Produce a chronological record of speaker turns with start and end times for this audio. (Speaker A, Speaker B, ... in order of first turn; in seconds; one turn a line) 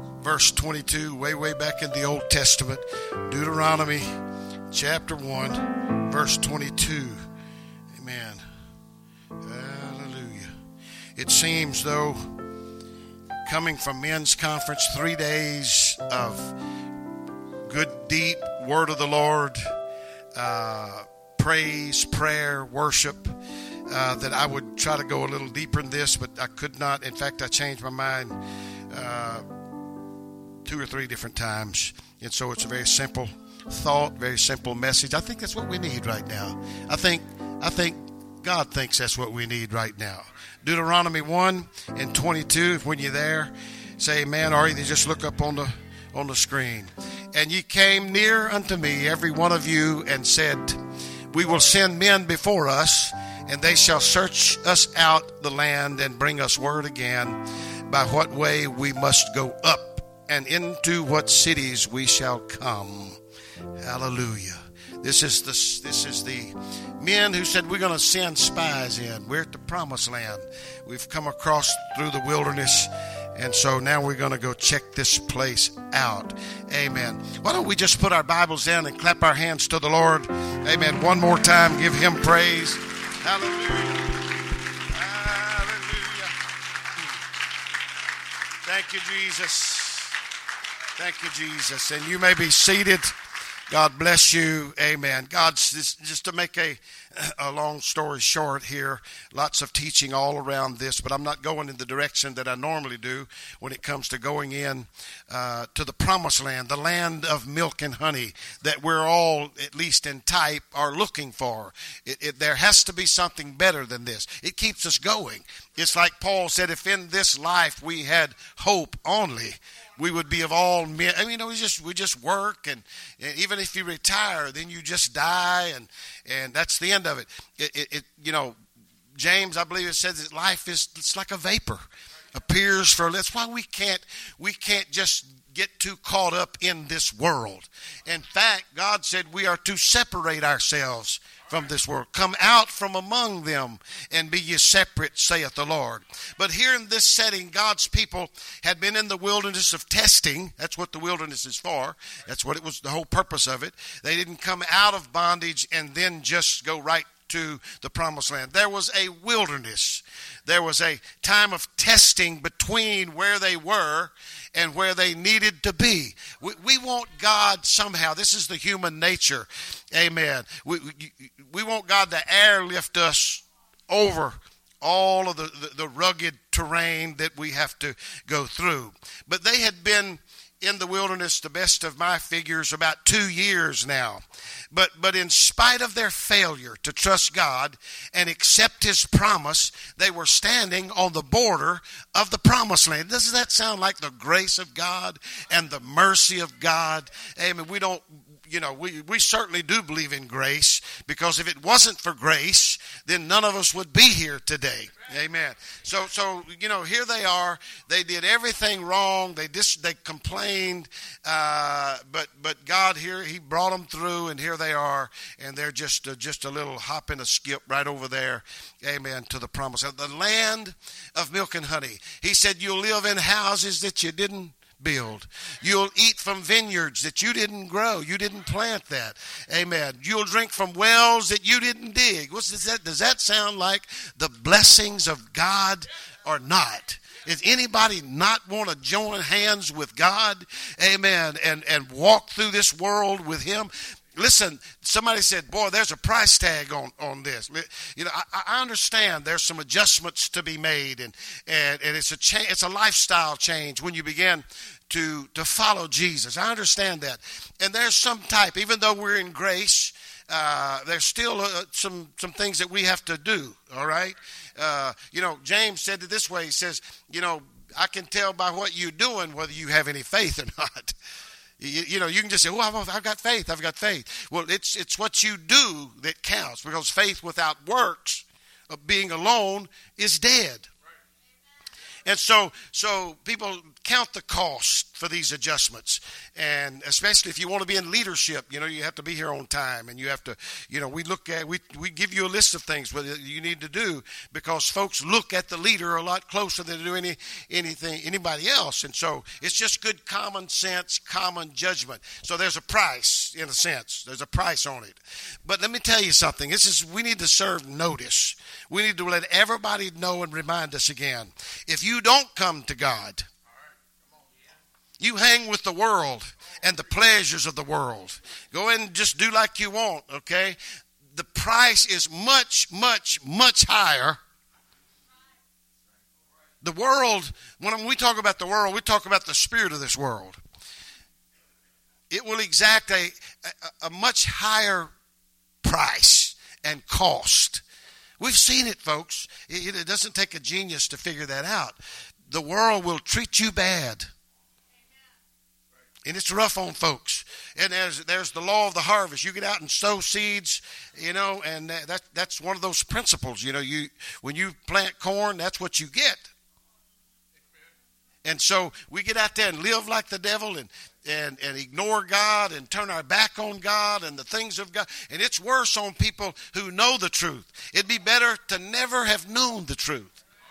Speaker A: 0.2-4.2
Speaker A: 4.7-7.2
Speaker A: 7.9-8.4
Speaker A: 9.4-10.5
Speaker A: 11.2-12.3
Speaker A: 13.5-16.6
Speaker A: 17.7-19.7
Speaker A: 20.4-28.4
Speaker A: 28.9-29.5
Speaker A: 30.6-50.8
Speaker A: 51.3-63.2
Speaker A: 63.8-84.2
Speaker A: 84.9-86.3
Speaker A: 88.6-90.2
Speaker A: 91.0-93.1
Speaker A: 93.7-128.6
Speaker A: 129.2-270.9
Speaker A: 271.6-280.7
Speaker A: 282.1-313.3
Speaker A: 315.0-320.6
Speaker A: 321.1-324.2
Speaker A: 326.6-330.4
Speaker A: 332.1-334.9
Speaker A: 335.6-337.6
Speaker A: 338.2-341.8
Speaker A: 342.3-344.1
Speaker A: 346.1-356.3
Speaker A: 358.2-370.2